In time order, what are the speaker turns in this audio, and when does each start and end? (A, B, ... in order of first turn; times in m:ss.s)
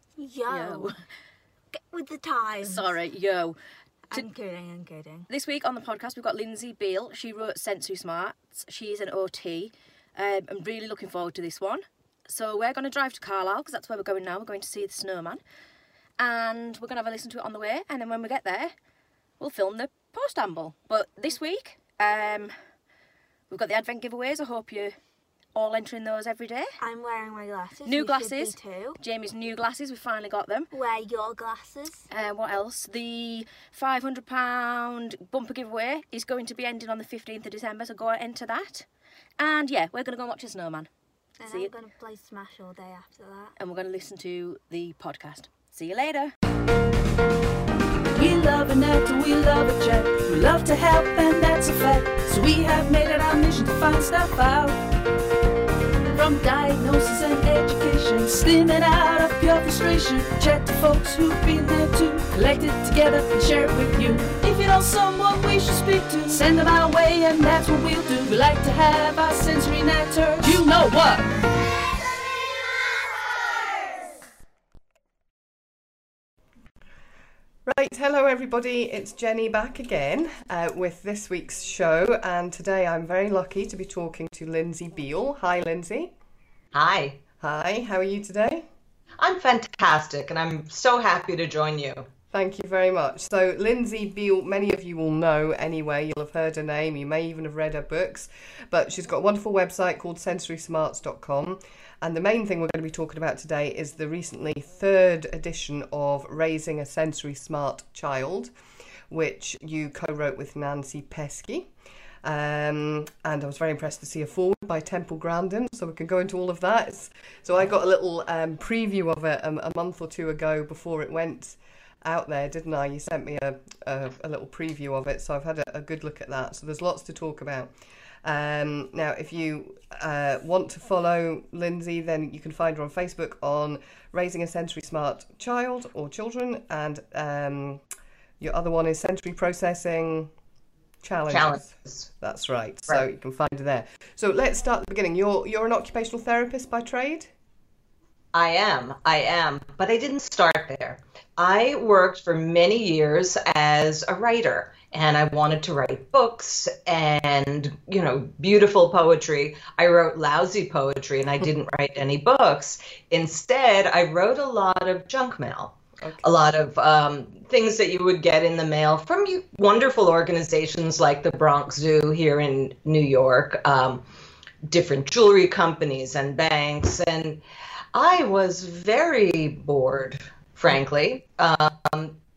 0:00.2-0:00.9 A
0:00.5-0:00.9 B
0:01.7-0:03.0 A
0:02.6-0:03.6 B
0:04.1-0:05.3 A
0:05.3-0:15.4 B
0:16.2-0:18.7 B
0:19.4-0:22.5 B
0:23.5-0:25.0 B
0:25.6-0:26.7 B
0:26.8-0:29.0 A
0:27.9-0:30.7 B
0:30.7-0:32.1 A
0:32.1-0:38.9 B
0:39.4-0:40.9 B
0:41.4-0:43.5 A
0:41.4-0:41.7 B
0:43.6-0:46.3 B
0:48.1-0:54.8 C
0:56.1-1:11.3 C
1:17.7-1:26.1 D
1:26.7-1:27.2 E
1:27.4-1:28.7 D
1:29.2-1:32.1 E
1:32.3-1:48.5 D
1:49.1-1:51.7 D
1:52.2-2:07.7 D
2:08.2-2:17.8 D
2:18.4-2:20.3 D
2:21.0-2:27.3 D
2:21.3-2:22.1 E
2:28.3-2:54.0 E
2:46.0-2:46.3 D
2:54.7-2:57.4 E
2:57.9-3:02.2 E